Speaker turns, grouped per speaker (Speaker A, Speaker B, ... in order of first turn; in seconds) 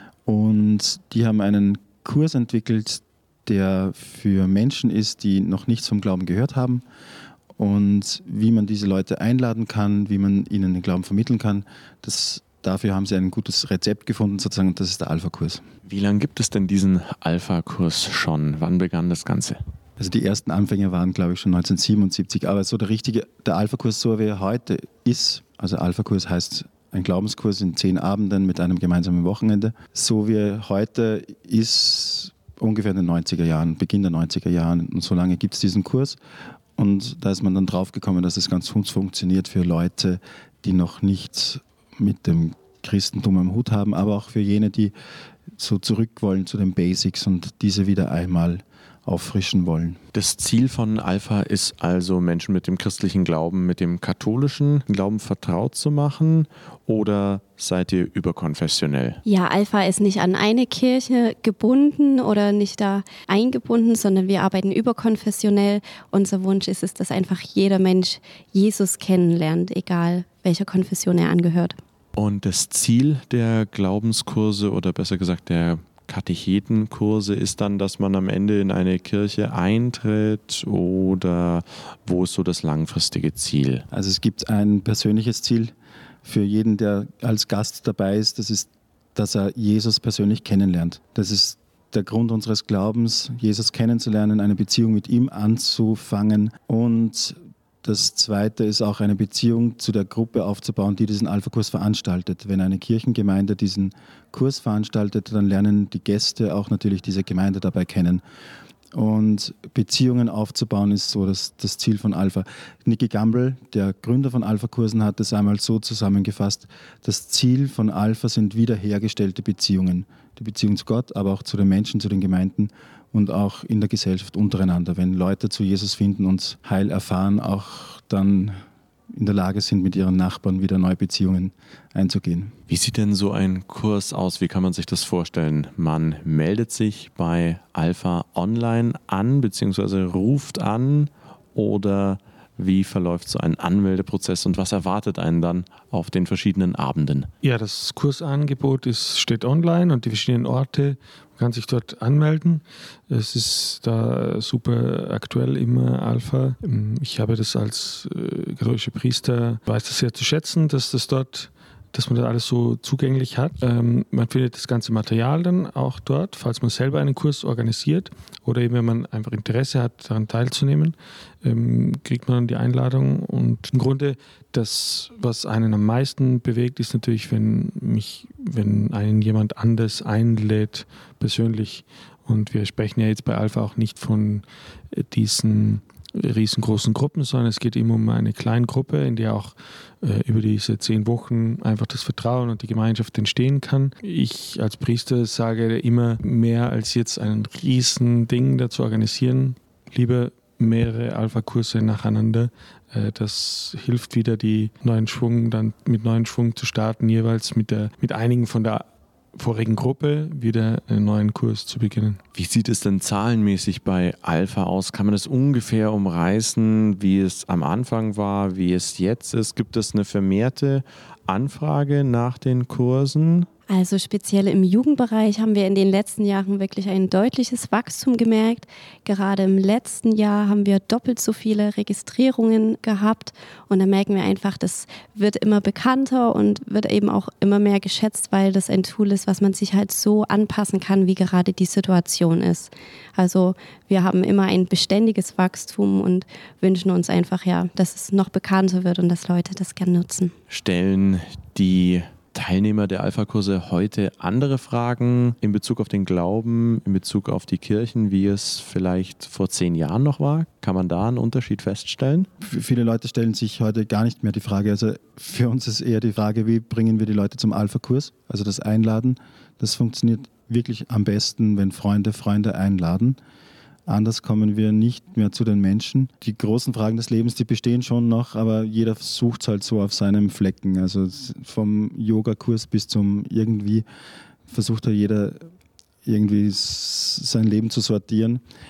Speaker A: 0.2-6.8, 7.5-15.6, 20.0-36.2, 36.8-44.9, 45.5-50.0, 83.9-85.7, 86.2-108.2, 108.9-128.6, 129.1-132.5, 262.4-273.2, 273.9-283.8, 284.5-285.4, 286.0-288.4
Speaker B: 15.8-19.6, 50.1-59.2, 72.2-83.8, 132.7-147.3, 212.3-223.5, 250.5-262.3
Speaker C: 59.2-71.8, 223.7-250.3
Speaker D: 147.4-212.2